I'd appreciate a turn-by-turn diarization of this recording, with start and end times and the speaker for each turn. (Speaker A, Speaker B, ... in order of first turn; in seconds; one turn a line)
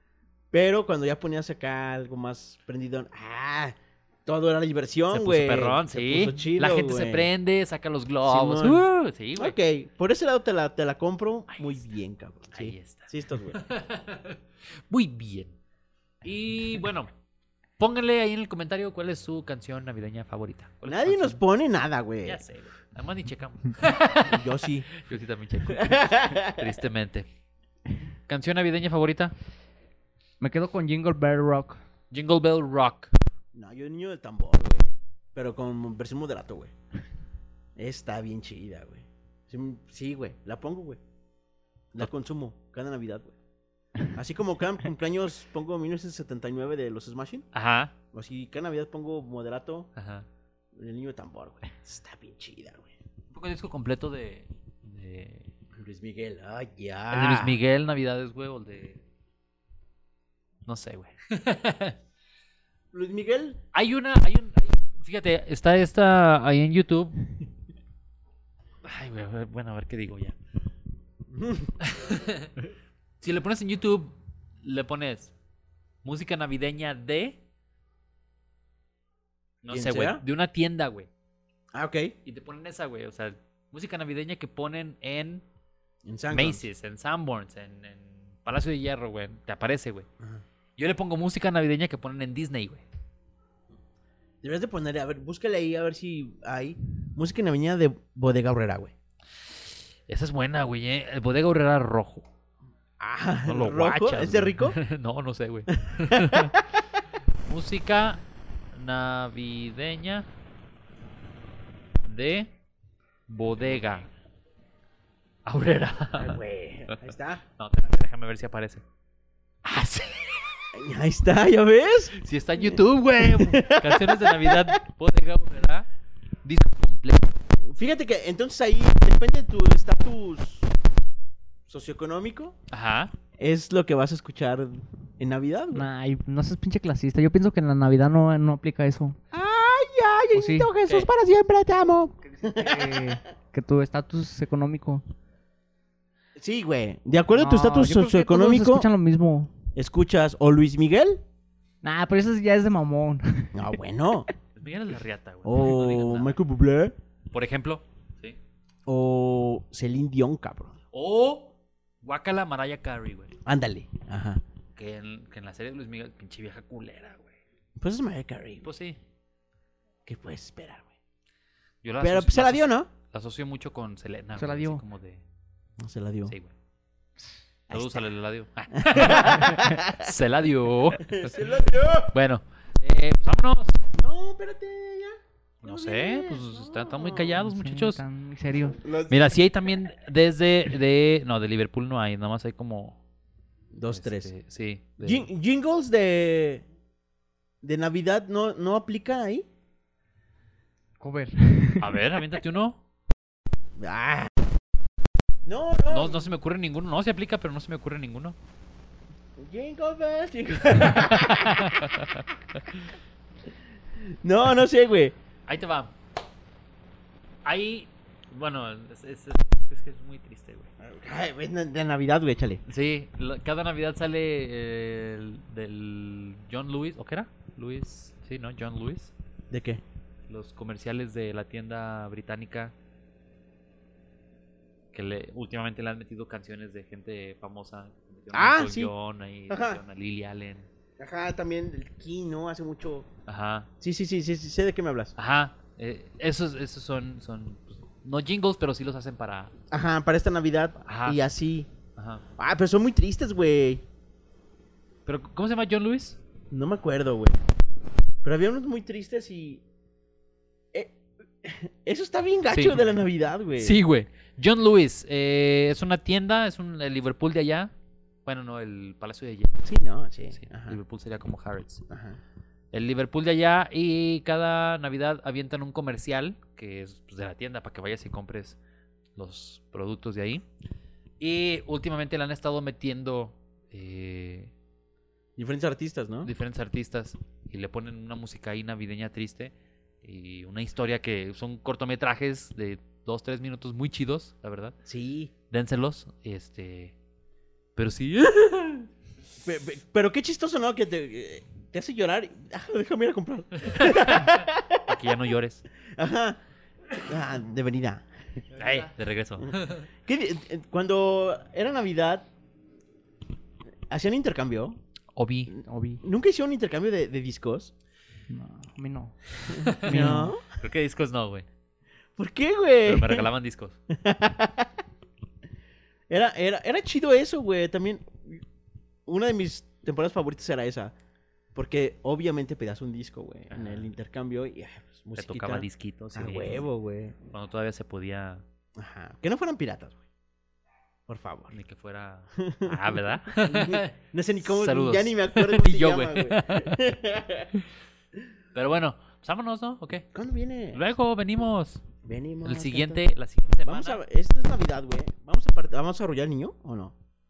Speaker A: 0.5-7.3
Speaker B: 5.1-9.5
Speaker A: 8.2-8.8
Speaker A: 9.3-13.6
Speaker B: 12.5-15.6
Speaker B: 16.2-17.1
Speaker B: 17.8-21.4
Speaker A: 20.9-22.4
Speaker B: 22.2-27.2
Speaker A: 24.2-24.9
Speaker A: 25.7-26.7
Speaker B: 28.3-29.3
Speaker C: 30.4-31.8
Speaker B: 32.1-33.1
Speaker A: 33.5-36.7
Speaker A: 37.8-41.0
Speaker A: 41.9-43.3
Speaker A: 44.1-47.4
Speaker B: 47.5-47.9
Speaker A: 48.1-49.9
Speaker B: 50.0-50.2
Speaker A: 50.7-53.0
Speaker B: 53.3-55.5
Speaker A: 55.7-57.6
Speaker B: 57.1-59.0
Speaker B: 60.6-62.0
Speaker A: 62.9-63.6
Speaker B: 63.7-67.3
Speaker B: 68.8-70.3
Speaker A: 71.3-71.8
Speaker B: 71.8-72.5
Speaker B: 73.2-75.3
Speaker B: 76.0-77.4
Speaker B: 79.6-81.1
Speaker A: 79.7-80.2
Speaker A: 81.7-82.1
Speaker B: 82.2-85.4
Speaker A: 86.0-86.6
Speaker B: 86.3-90.0
Speaker B: 90.8-92.8
Speaker A: 94.4-98.9
Speaker B: 100.1-102.2
Speaker A: 103.0-104.8
Speaker B: 103.5-106.5
Speaker A: 105.8-107.0
Speaker B: 107.5-110.3
Speaker B: 112.0-112.5
Speaker B: 113.3-114.1
Speaker B: 115.5-117.0
Speaker A: 116.2-117.4
Speaker B: 117.6-118.8
Speaker B: 119.6-120.7
Speaker A: 120.7-124.8
Speaker B: 122.2-125.8
Speaker B: 126.4-127.4
Speaker A: 127.7-130.7
Speaker A: 131.7-132.5
Speaker B: 132.7-133.1
Speaker A: 133.4-135.9
Speaker C: 135.7-139.2
Speaker A: 139.3-143.2
Speaker C: 140.3-140.7
Speaker C: 142.2-145.0
Speaker A: 146.4-148.9
Speaker C: 147.3-149.5
Speaker A: 149.7-151.2
Speaker C: 151.8-153.6
Speaker A: 153.5-154.3
Speaker B: 154.6-156.4
Speaker A: 155.4-156.9
Speaker B: 157.3-158.4
Speaker A: 158.8-160.8
Speaker B: 160.9-163.3
Speaker A: 163.4-164.4
Speaker B: 164.8-167.4
Speaker A: 167.8-168.7
Speaker B: 168.6-169.0
Speaker A: 170.1-170.9
Speaker B: 171.8-175.2
Speaker A: 172.0-172.9
Speaker C: 174.3-174.8
Speaker A: 175.8-176.3
Speaker A: 177.7-178.1
Speaker B: 177.7-181.3
Speaker A: 178.8-180.1
Speaker A: 181.0-182.2
Speaker B: 182.1-183.8
Speaker A: 183.9-187.4
Speaker B: 185.6-188.0
Speaker C: 187.3-188.8
Speaker A: 188.7-189.3
Speaker B: 189.1-193.0
Speaker A: 193.7-194.3
Speaker B: 193.9-195.3
Speaker A: 195.0-196.6
Speaker A: 197.6-199.4
Speaker C: 201.0-202.0
Speaker B: 201.8-202.8
Speaker A: 203.8-204.3
Speaker A: 205.4-206.3
Speaker B: 205.9-208.3
Speaker A: 209.4-211.9
Speaker B: 210.9-212.2
Speaker A: 214.0-215.2
Speaker B: 215.5-215.9
Speaker B: 217.4-220.7
Speaker A: 220.8-222.6
Speaker B: 222.7-229.1
Speaker A: 229.5-229.8
Speaker B: 230.3-232.7
Speaker B: 234.9-240.7
Speaker A: 238.3-238.9
Speaker A: 239.5-239.8
Speaker A: 241.0-243.1
Speaker B: 243.3-243.7
Speaker A: 243.8-245.1
Speaker B: 245.2-249.5
Speaker A: 249.7-251.7
Speaker B: 250.8-251.2
Speaker B: 251.9-252.2
Speaker A: 252.4-253.8
Speaker B: 255.1-256.2
Speaker A: 256.5-257.4
Speaker A: 258.2-259.6
Speaker A: 260.7-263.8
Speaker B: 262.5-262.9
Speaker B: 263.6-267.7
Speaker B: 268.2-269.6
Speaker A: 269.6-270.8
Speaker B: 270.3-271.8
Speaker A: 271.9-272.2
Speaker B: 272.7-278.6
Speaker B: 279.1-280.4
Speaker B: 281.2-284.5
Speaker A: 285.4-286.3
Speaker B: 286.2-294.7
Speaker A: 294.9-295.3
Speaker B: 295.5-296.9
Speaker B: 297.8-298.9
Speaker A: 299.4-304.9
Speaker B: 303.6-305.7
Speaker A: 305.8-306.4
Speaker A: 306.9-308.1
Speaker C: 308.5-308.9
Speaker B: 308.6-309.9
Speaker A: 310.0-312.3
Speaker A: 313.9-314.8
Speaker B: 315.1-315.5
Speaker C: 315.6-316.0
Speaker A: 316.0-317.7
Speaker C: 318.3-320.3
Speaker A: 319.5-320.4
Speaker B: 319.6-321.4
Speaker A: 322.1-323.3
Speaker B: 322.9-323.8
Speaker A: 323.9-324.7
Speaker A: 326.1-328.4
Speaker A: 329.1-330.9
Speaker A: 331.5-337.2
Speaker B: 333.5-333.9
Speaker B: 335.1-336.7
Speaker B: 337.3-338.4
Speaker A: 338.8-340.0
Speaker A: 341.1-341.5
Speaker B: 341.5-346.8
Speaker A: 342.4-347.5
Speaker B: 348.5-350.1
Speaker A: 350.1-350.9
Speaker B: 350.7-351.8
Speaker A: 352.0-353.0
Speaker B: 352.4-354.0
Speaker A: 353.6-356.9